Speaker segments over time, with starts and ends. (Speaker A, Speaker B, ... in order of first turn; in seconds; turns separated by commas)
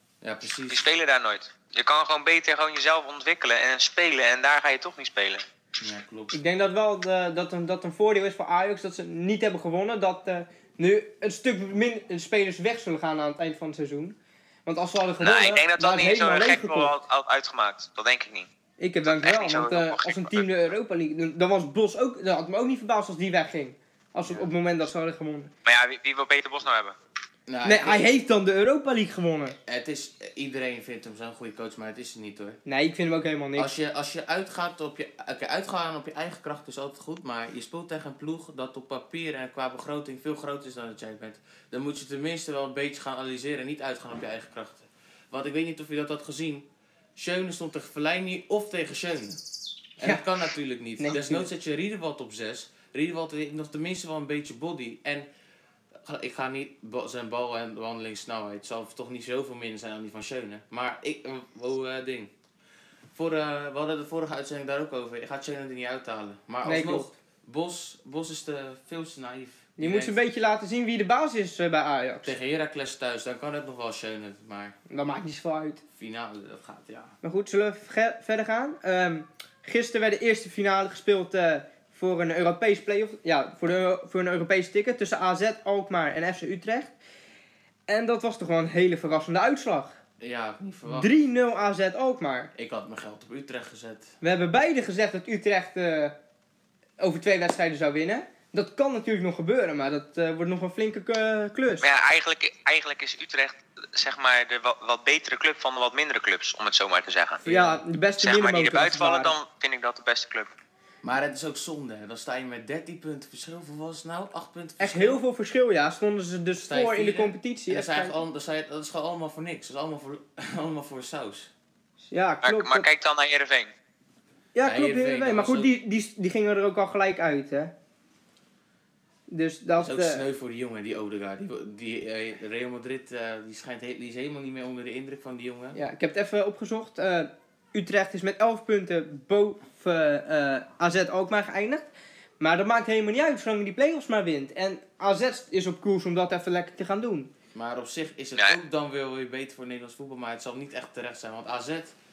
Speaker A: 0.2-0.9, Speaker B: 0.7-5.5, Speaker A: 5.8-6.3, Speaker C: 6.3-17.0, Speaker B: 15.2-18.5, Speaker C: 18.8-25.5, Speaker B: 19.1-20.5, Speaker A: 24.2-24.5, Speaker B: 25.6-27.0, Speaker A: 27.5-28.1, Speaker C: 27.6-29.6, Speaker A: 29.7-32.6, Speaker C: 32.7-33.7, Speaker A: 33.6-49.4, Speaker A: 50.0-55.3, Speaker C: 51.0-51.5, Speaker A: 56.0-62.3, Speaker A: 63.1-70.2, Speaker C: 66.7-67.1, Speaker C: 69.8-72.3, Speaker A: 72.2-74.8, Speaker C: 74.9-75.8, Speaker A: 75.9-77.1, Speaker C: 77.2-86.9, Speaker C: 87.9-90.0, Speaker A: 90.2-91.1, Speaker C: 90.9-92.5, Speaker A: 92.5-94.1, Speaker C: 94.2-96.2, Speaker C: 97.0-101.9, Speaker B: 101.8-107.5, Speaker A: 107.4-107.8, Speaker C: 107.5-109.3, Speaker B: 108.2-110.5, Speaker A: 111.0-115.2, Speaker C: 114.8-118.2, Speaker A: 116.7-121.5, Speaker C: 122.1-122.9, Speaker B: 122.4-123.7, Speaker C: 124.5-127.7, Speaker A: 124.7-125.7, Speaker C: 129.3-130.2, Speaker A: 129.8-135.8, Speaker C: 135.8-141.9, Speaker C: 142.4-147.3, Speaker A: 147.5-151.9